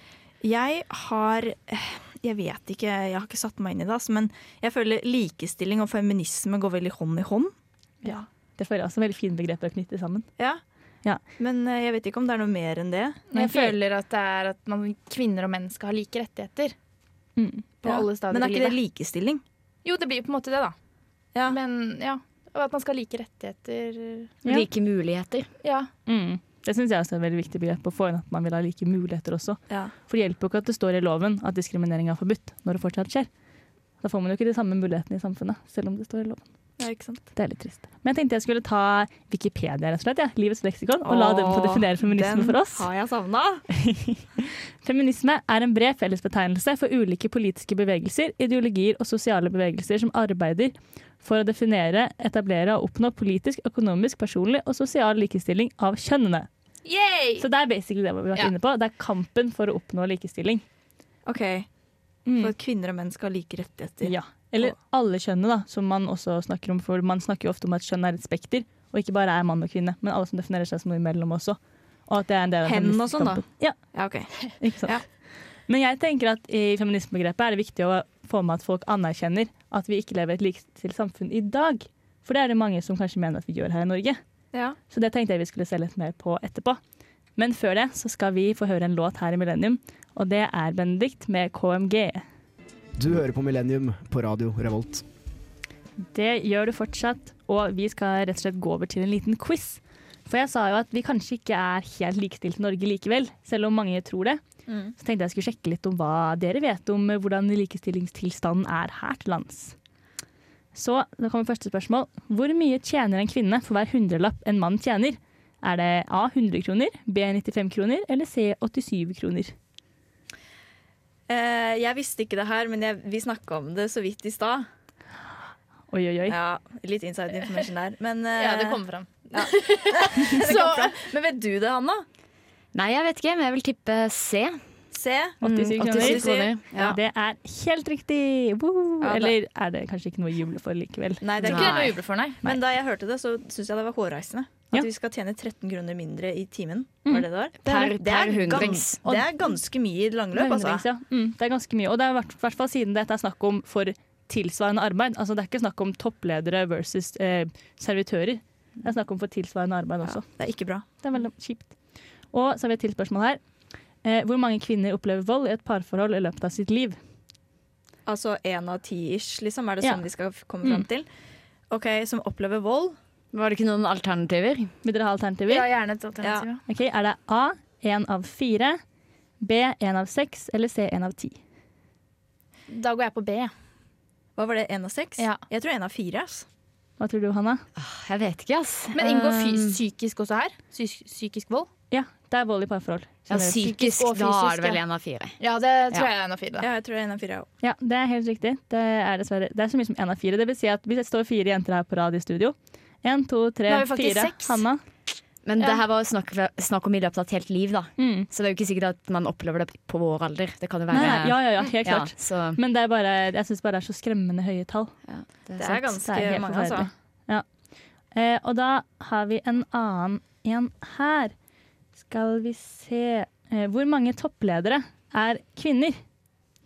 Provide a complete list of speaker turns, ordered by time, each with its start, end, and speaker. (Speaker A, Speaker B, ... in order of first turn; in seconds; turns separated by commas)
Speaker A: 0.4-7.5, Speaker B: 8.0-10.3, Speaker A: 11.4-13.2, Speaker C: 13.3-16.7, Speaker B: 13.3-13.8, Speaker B: 17.4-17.7, Speaker C: 17.8-18.8, Speaker A: 17.8-19.4, Speaker C: 19.8-20.7, Speaker C: 21.5-24.3, Speaker D: 24.4-25.5, Speaker C: 25.6-25.9, Speaker B: 26.1-33.3, Speaker B: 34.0-36.4, Speaker A: 36.8-37.2, Speaker B: 37.3-42.9, Speaker A: 41.0-43.6, Speaker B: 43.7-56.5, Speaker C: 56.8-57.5, Speaker B: 57.4-60.6, Speaker A: 61.2-61.7, Speaker B: 62.2-62.5, Speaker A: 62.3-64.7, Speaker B: 64.0-73.8, Speaker A: 72.6-75.0, Speaker B: 74.6-75.0, Speaker B: 75.7-84.2, Speaker B: 84.9-86.8, Speaker B: 87.4-92.2, Speaker E: 93.0-95.0, Speaker B: 96.0-104.4, Speaker A: 104.7-104.9, Speaker B: 105.0-109.8, Speaker B: 110.7-119.5, Speaker A: 121.3-124.7, Speaker B: 125.9-126.4, Speaker A: 126.3-128.8, Speaker C: 128.3-131.1, Speaker A: 129.3-132.0, Speaker D: 132.7-134.6, Speaker A: 134.9-137.0, Speaker B: 135.4-141.3, Speaker D: 135.4-136.7, Speaker A: 139.0-139.3, Speaker A: 141.2-150.8, Speaker C: 141.4-142.6, Speaker D: 141.4-141.9, Speaker D: 147.6-149.0, Speaker B: 150.3-161.7, Speaker A: 160.0-160.8, Speaker B: 162.3-163.4, Speaker B: 164.0-167.0, Speaker A: 168.1-171.1, Speaker A: 171.7-172.9, Speaker D: 173.3-174.7, Speaker B: 174.8-175.7, Speaker C: 175.5-176.6, Speaker A: 176.2-176.5, Speaker B: 176.7-178.8, Speaker B: 179.4-181.4, Speaker C: 182.7-183.5, Speaker A: 184.3-186.4, Speaker C: 185.2-185.4, Speaker B: 187.0-187.6, Speaker D: 187.8-189.8, Speaker C: 188.9-191.7, Speaker B: 191.9-193.7, Speaker D: 193.3-195.4, Speaker C: 193.5-194.8, Speaker C: 195.4-196.7, Speaker A: 196.6-197.5, Speaker B: 197.6-204.8, Speaker C: 203.7-204.6, Speaker D: 205.4-212.6, Speaker B: 208.0-208.3, Speaker B: 210.9-214.9, Speaker D: 215.1-215.8, Speaker A: 215.6-216.9, Speaker B: 215.6-217.4, Speaker B: 218.1-221.3, Speaker B: 222.0-226.0